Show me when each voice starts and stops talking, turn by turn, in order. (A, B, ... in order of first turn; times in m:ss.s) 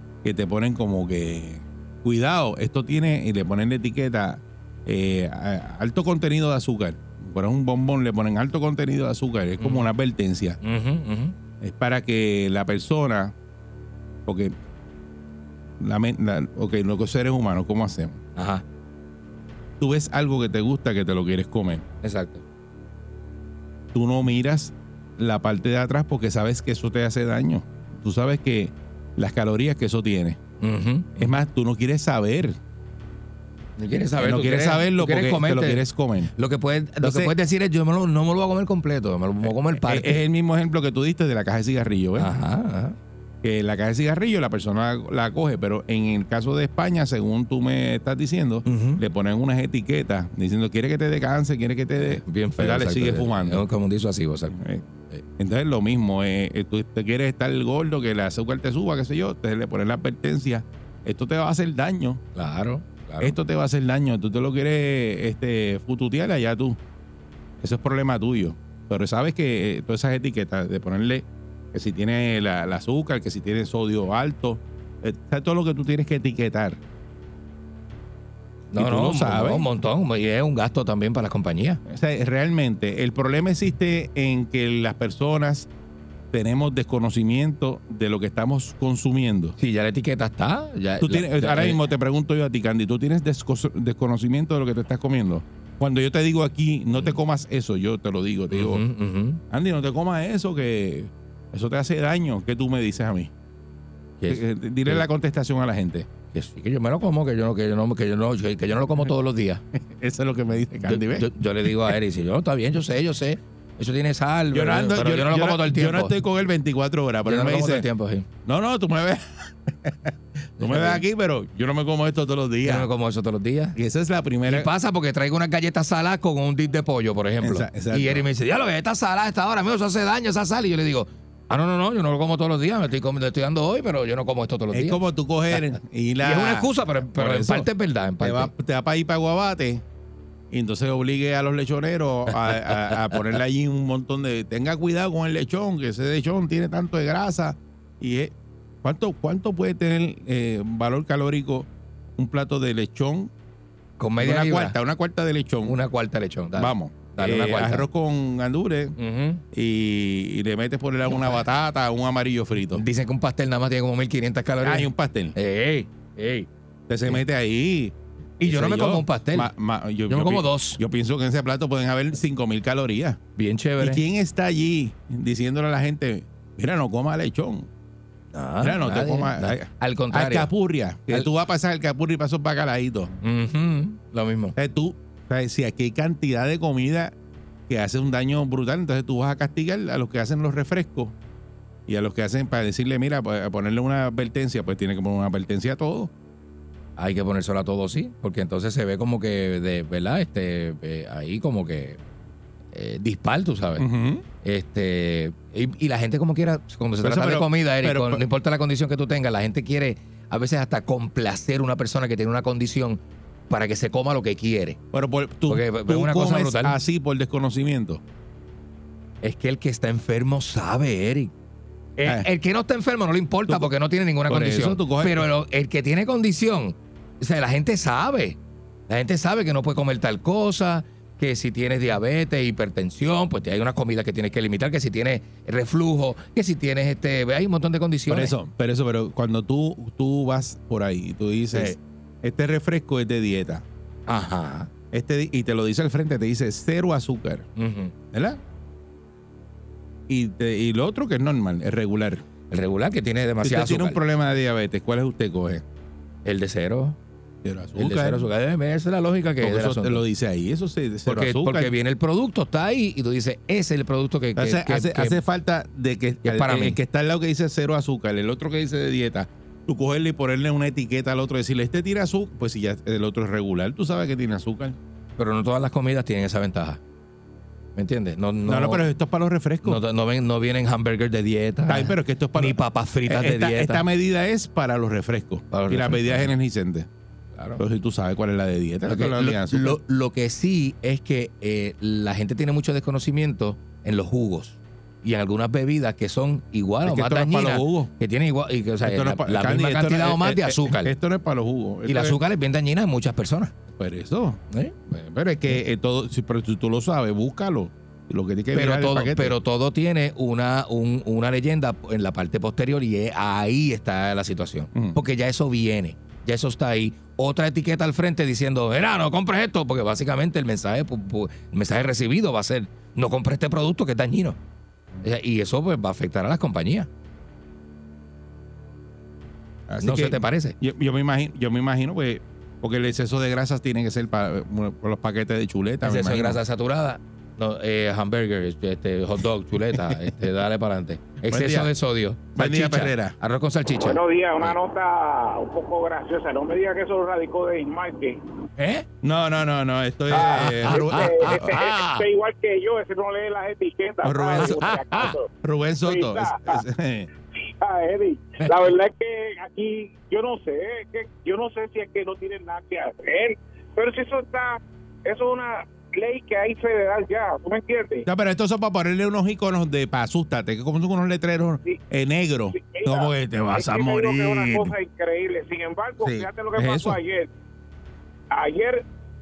0:00.2-0:10.6 A
0:09.6-0:09.9 B
0:10.6-0:11.3 B
0:11.6-0:13.3 A
0:14.2-0:14.5 A
0:15.8-0:18.2 A
0:18.4-0:18.6 B
0:19.8-0:21.8 A
0:22.0-0:22.4 B
0:23.9-0:30.4 A
0:30.6-0:31.3 B
0:31.2-0:32.6 A
0:33.8-0:35.8 B
0:34.2-0:36.3 A
0:36.4-0:40.2 B
0:37.0-0:37.3 A
0:39.7-0:42.3 A
0:42.2-0:43.0 B
0:43.4-0:53.6 A
0:48.6-0:49.0 B
0:52.0-0:54.5 B
0:54.5-0:54.8 A
0:55.4-1:02.2 A
1:02.3-1:03.4 B
1:03.2-1:06.8 A
1:07.6-1:16.8 A
1:18.7-1:21.8 B
1:18.7-1:19.7 A
1:21.9-1:25.7 A
1:26.3-1:29.6 A
1:29.6-1:31.8 B
1:31.0-1:38.8 A
1:38.5-1:39.4 B
1:39.5-1:43.3 A
1:44.2-1:45.0 B
1:44.3-1:46.1 A
1:46.3-1:49.6 B
1:49.8-1:51.3 A
1:50.8-1:56.1 B
1:54.5-1:57.8 A
1:57.2-1:58.3 B
1:58.4-2:02.9 A
2:00.6-2:01.0 B
2:02.6-2:03.8 B
2:03.8-2:04.7 A
2:04.4-2:15.0 B
2:07.4-2:08.2 A
2:14.7-2:17.7 A
2:16.2-2:18.5 B
2:18.2-2:19.8 A
2:20.5-2:33.3 A
2:22.5-2:23.1 B
2:34.0-2:34.8 B
2:34.2-2:35.8 A
2:35.6-2:37.8 B
2:36.6-2:39.0 A
2:39.0-2:39.4 B
2:39.5-2:42.8 A
2:41.0-2:41.4 B
2:42.8-2:46.5 B
2:44.6-2:45.3 A
2:46.9-2:53.2 A
2:48.4-2:49.5 B
2:50.1-2:50.8 B
2:53.4-2:54.0 B
2:53.8-2:57.7 A
2:58.3-3:00.5 B
2:58.6-3:03.1 A
3:03.2-3:04.5 B
3:04.6-3:07.1 A
3:07.7-3:11.1 A
3:11.9-3:16.1 A
3:17.0-3:22.0 B
3:22.7-3:23.8 B
3:23.8-3:24.2 A
3:24.4-3:34.8 B
3:27.0-3:28.2 A
3:34.9-3:38.0 A
3:35.5-3:36.7 B
3:39.2-3:41.3 B
3:42.0-3:48.4 B
3:44.3-3:45.3 A
3:48.9-3:58.3 B
3:58.1-4:03.6 A
4:04.1-4:04.7 B
4:04.9-4:07.4 A
4:07.6-4:07.9 B
4:08.1-4:08.4 A
4:10.1-4:12.2 A
4:12.5-4:14.0 B
4:13.4-4:15.6 A
4:16.2-4:17.0 B
4:17.4-4:18.3 A
4:17.8-4:20.0 B
4:19.4-4:21.7 A
4:21.1-4:25.2 B
4:24.4-4:34.8 A
4:26.2-4:26.8 B
4:35.2-4:36.8 B
4:37.8-4:38.8 B
4:38.4-4:39.8 A
4:39.6-4:43.8 B
4:41.7-4:46.9 A
4:45.5-4:46.3 B
4:47.4-4:47.6 B
4:47.6-4:49.8 A
4:48.9-5:00.9 B
4:56.8-4:57.9 A
4:58.8-5:02.2 A
5:01.9-5:03.5 B
5:03.7-5:09.3 A
5:04.5-5:04.8 B
5:08.5-5:24.4 B
5:25.0-5:26.9 B
5:29.7-5:36.4 A
5:29.8-5:30.5 B
5:35.8-5:44.5 B
5:41.3-5:41.7 A
5:42.4-5:43.1 A
5:43.8-5:48.2 C
5:48.6-5:48.8 B
5:49.0-5:51.4 A
5:50.1-5:52.0 B
5:50.6-5:55.3 C
5:54.0-5:57.1 A
5:54.4-5:55.2 B
5:55.8-5:56.6 C
5:57.6-6:08.0 C
5:58.4-5:58.7 B
6:08.0-6:14.7 A
6:12.5-6:17.3 C
6:16.0-6:17.0 A
6:18.3-6:18.8 C